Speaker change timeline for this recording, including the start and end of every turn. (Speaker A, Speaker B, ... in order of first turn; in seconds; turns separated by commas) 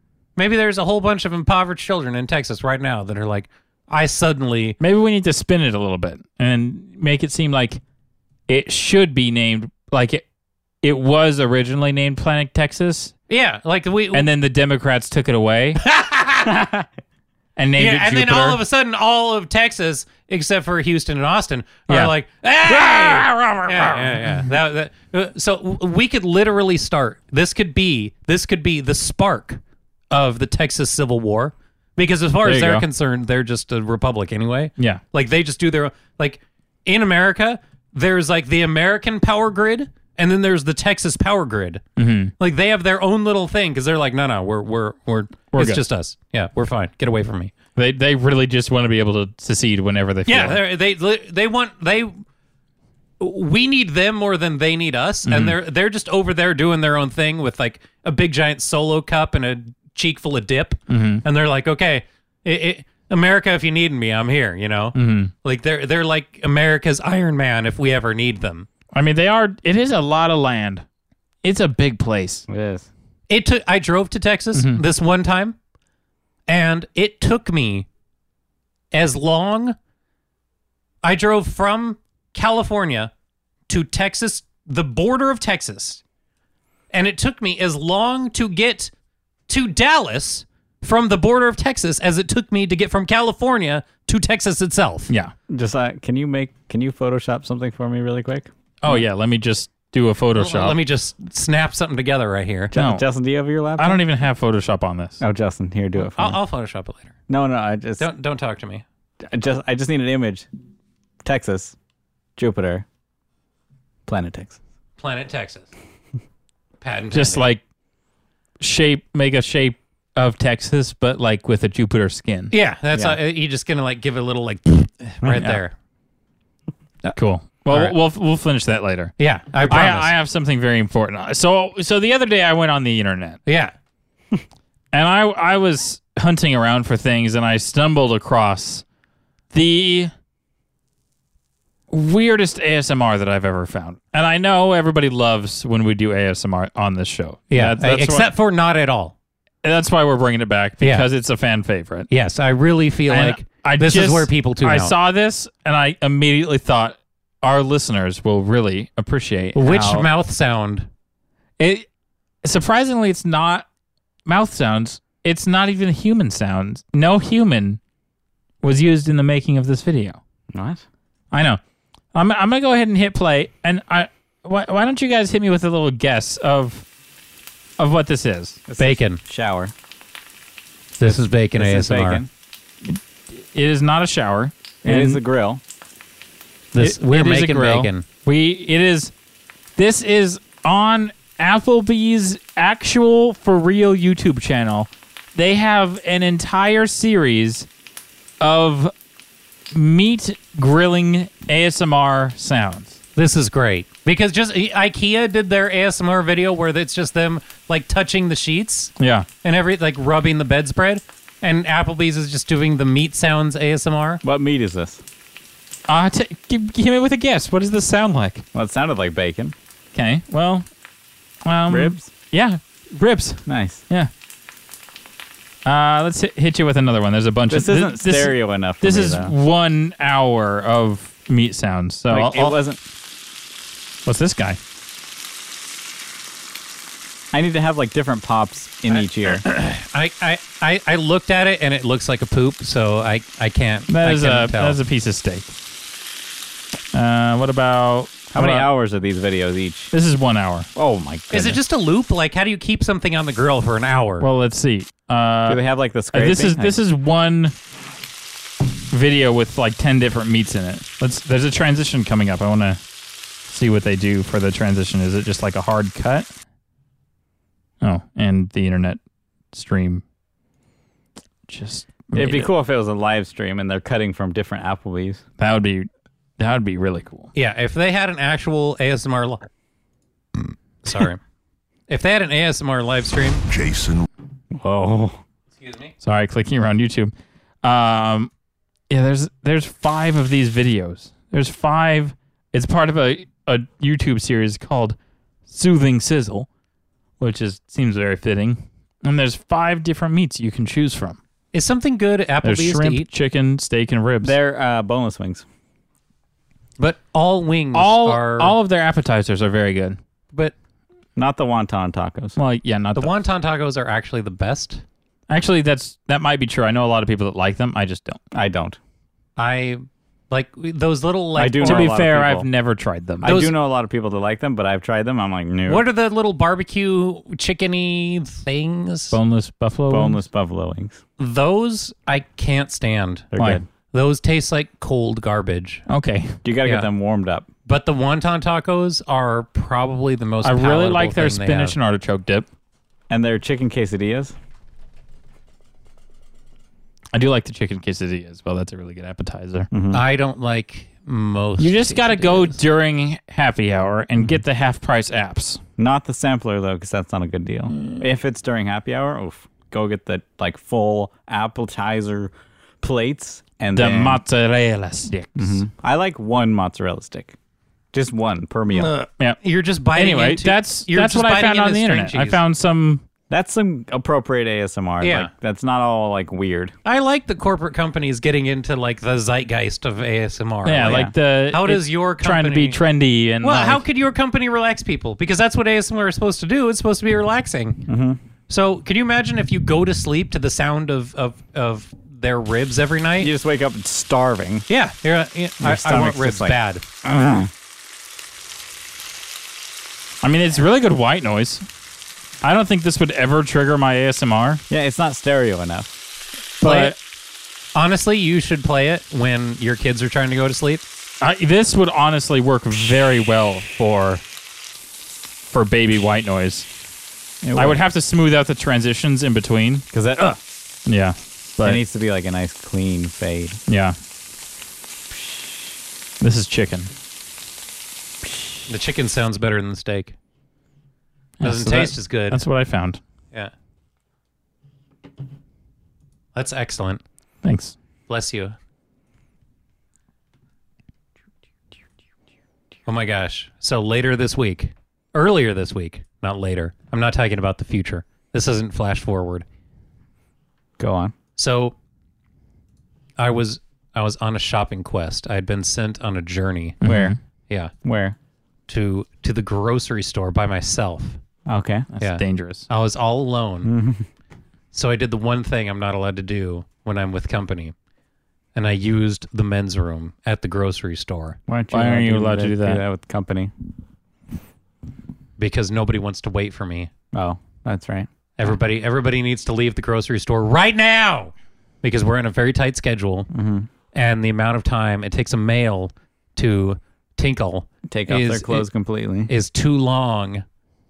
Speaker A: 0.3-4.8, Speaker B: 4.8-7.8, Speaker B: 8.5-10.2, Speaker B: 10.8-13.1, Speaker A: 13.3-14.3, Speaker B: 14.1-15.8, Speaker A: 15.8-16.6, Speaker C: 16.5-16.8, Speaker B: 17.6-18.6, Speaker A: 17.8-29.6, Speaker B: 22.6-24.5, Speaker A: 30.1-41.8, Speaker B: 32.4-32.9, Speaker B: 42.0-42.3, Speaker A: 42.4-47.5, Speaker B: 45.5-45.8, Speaker B: 47.8-50.6, Speaker A: 50.3-52.1, Speaker A: 53.2-68.7, Speaker B: 55.2-55.6, Speaker B: 60.9-61.2, Speaker B: 64.9-65.3, Speaker B: 68.9-70.8, Speaker B: 71.4-72.5, Speaker C: 72.5-72.9, Speaker A: 73.3-75.5, Speaker B: 74.5-74.8, Speaker A: 76.5-77.9, Speaker A: 78.9-79.7, Speaker A: 81.0-83.1, Speaker A: 83.7-86.0, Speaker A: 86.9-88.9, Speaker A: 89.5-95.1, Speaker C: 95.5-98.5, Speaker B: 98.8-100.8, Speaker A: 100.3-102.7, Speaker C: 102.7-104.0, Speaker B: 102.7-103.0, Speaker B: 103.8-105.2, Speaker C: 105.2-106.4, Speaker A: 106.0-107.1, Speaker C: 107.3-108.1, Speaker A: 108.0-108.8, Speaker C: 109.2-110.5, Speaker C: 111.2-111.8, Speaker C: 112.4-112.8, Speaker C: 114.1-114.6, Speaker A: 115.0-115.7, Speaker A: 116.8-117.5, Speaker B: 117.1-117.6, Speaker B: 118.6-122.5, Speaker A: 122.5-125.7, Speaker C: 122.9-123.2, Speaker B: 125.3-125.6, Speaker B: 127.1-129.1, Speaker A: 127.7-128.0, Speaker A: 129.2-130.1, Speaker B: 129.6-133.4, Speaker A: 133.4-133.7, Speaker B: 134.9-138.8, Speaker B: 139.5-140.1, Speaker B: 141.9-148.3, Speaker A: 147.5-149.1, Speaker B: 149.6-152.1, Speaker A: 150.8-151.0, Speaker A: 152.1-154.9, Speaker B: 153.1-160.1, Speaker A: 159.5-160.9, Speaker B: 161.6-161.8, Speaker B: 162.4-163.6, Speaker B: 164.2-167.8, Speaker B: 168.6-170.2, Speaker C: 170.5-170.8, Speaker B: 171.3-171.6, Speaker B: 172.1-176.8, Speaker B: 177.8-178.6, Speaker C: 178.7-179.7, Speaker A: 178.8-179.2, Speaker A: 181.0-182.2, Speaker C: 181.5-182.3, Speaker B: 182.8-185.2, Speaker C: 184.8-185.6, Speaker A: 186.7-188.1, Speaker B: 186.8-189.1, Speaker B: 189.8-197.7, Speaker B: 198.4-198.9, Speaker B: 199.7-203.0, Speaker A: 203.2-208.9, Speaker B: 209.0-209.3, Speaker A: 209.4-214.2, Speaker C: 214.2-215.0, Speaker B: 215.9-218.4, Speaker C: 218.5-219.5, Speaker B: 219.9-220.7, Speaker B: 221.4-224.1, Speaker C: 221.7-222.1, Speaker C: 223.5-223.8, Speaker B: 225.6-232.6, Speaker C: 227.5-229.3, Speaker C: 232.1-232.8, Speaker B: 234.1-234.6, Speaker C: 237.3-239.4, Speaker A: 238.9-244.8, Speaker B: 243.9-245.5, Speaker B: 246.9-248.7, Speaker C: 248.3-249.9, Speaker B: 249.9-250.7, Speaker C: 250.7-251.6, Speaker A: 251.3-254.3, Speaker B: 254.2-255.6, Speaker C: 255.4-256.8, Speaker B: 256.1-257.5, Speaker B: 258.9-262.8, Speaker B: 263.5-266.3, Speaker B: 267.8-269.0, Speaker B: 269.5-270.0, Speaker B: 271.5-272.5, Speaker C: 272.1-275.2, Speaker B: 275.4-275.9, Speaker B: 276.4-277.3, Speaker A: 277.3-279.5, Speaker A: 280.8-281.2, Speaker A: 281.9-283.5, Speaker C: 284.5-285.2, Speaker A: 285.6-285.9, Speaker B: 286.0-287.1, Speaker B: 287.6-288.3, Speaker B: 288.9-294.9, Speaker B: 295.5-296.5, Speaker B: 297.2-301.2, Speaker A: 301.5-303.1, Speaker B: 302.4-304.3, Speaker C: 304.2-305.4, Speaker A: 306.8-308.5, Speaker B: 307.7-310.0, Speaker C: 311.1-312.4, Speaker B: 312.4-313.1, Speaker A: 312.9-314.8, Speaker B: 315.3-318.2, Speaker C: 318.3-318.8, Speaker A: 319.4-321.9, Speaker C: 321.4-322.5, Speaker B: 321.6-323.4, Speaker C: 323.2-325.8, Speaker A: 323.2-323.5, Speaker A: 325.7-329.2, Speaker B: 329.1-330.2, Speaker C: 329.9-331.0, Speaker A: 331.2-333.3, Speaker C: 333.3-333.6, Speaker A: 333.9-335.8, Speaker B: 335.9-336.4, Speaker C: 336.4-337.5, Speaker A: 337.6-341.8, Speaker B: 340.4-342.4, Speaker C: 343.1-344.3, Speaker B: 347.1-349.7, Speaker C: 349.7-350.0, Speaker A: 349.9-352.6, Speaker B: 351.6-355.6, Speaker C: 355.8-364.2, Speaker B: 363.7-365.6, Speaker C: 365.4-367.4, Speaker C: 367.9-368.9, Speaker A: 368.7-372.4, Speaker B: 369.1-369.4, Speaker B: 369.9-373.0, Speaker C: 373.3-376.7, Speaker A: 375.0-375.3, Speaker A: 376.8-382.8, Speaker B: 380.6-383.8, Speaker C: 380.8-381.1, Speaker A: 383.4-387.8, Speaker C: 387.9-388.2, Speaker A: 388.5-393.3, Speaker C: 393.2-394.6, Speaker A: 394.7-396.8, Speaker C: 395.6-397.5, Speaker B: 400.2-401.6, Speaker B: 402.4-404.6, Speaker C: 404.7-405.9, Speaker B: 406.6-407.0, Speaker A: 406.6-406.9, Speaker A: 407.7-410.8, Speaker B: 411.2-414.2, Speaker B: 415.5-416.7, Speaker C: 417.4-417.8, Speaker B: 417.5-419.8, Speaker C: 419.9-420.4, Speaker B: 420.9-421.8, Speaker C: 421.6-423.6, Speaker B: 423.7-423.9, Speaker B: 426.2-426.9, Speaker A: 428.7-430.1, Speaker B: 431.4-433.0, Speaker A: 431.4-432.4, Speaker A: 436.3-437.0, Speaker B: 437.4-437.7, Speaker A: 438.1-438.6, Speaker A: 442.9-449.4, Speaker C: 450.8-451.1, Speaker A: 451.4-451.7, Speaker A: 453.2-456.8, Speaker B: 456.8-457.2, Speaker C: 456.8-457.1, Speaker C: 457.8-458.2, Speaker A: 458.7-461.2, Speaker C: 461.5-461.9, Speaker B: 461.9-462.7, Speaker A: 462.0-463.7, Speaker C: 463.6-464.1, Speaker A: 464.7-467.7, Speaker A: 468.5-471.4, Speaker C: 471.5-473.5, Speaker B: 471.7-472.8, Speaker A: 475.4-476.9, Speaker C: 477.1-478.1, Speaker A: 478.4-483.3, Speaker C: 483.3-483.7, Speaker A: 483.9-488.6, Speaker C: 487.9-489.3, Speaker A: 489.3-490.4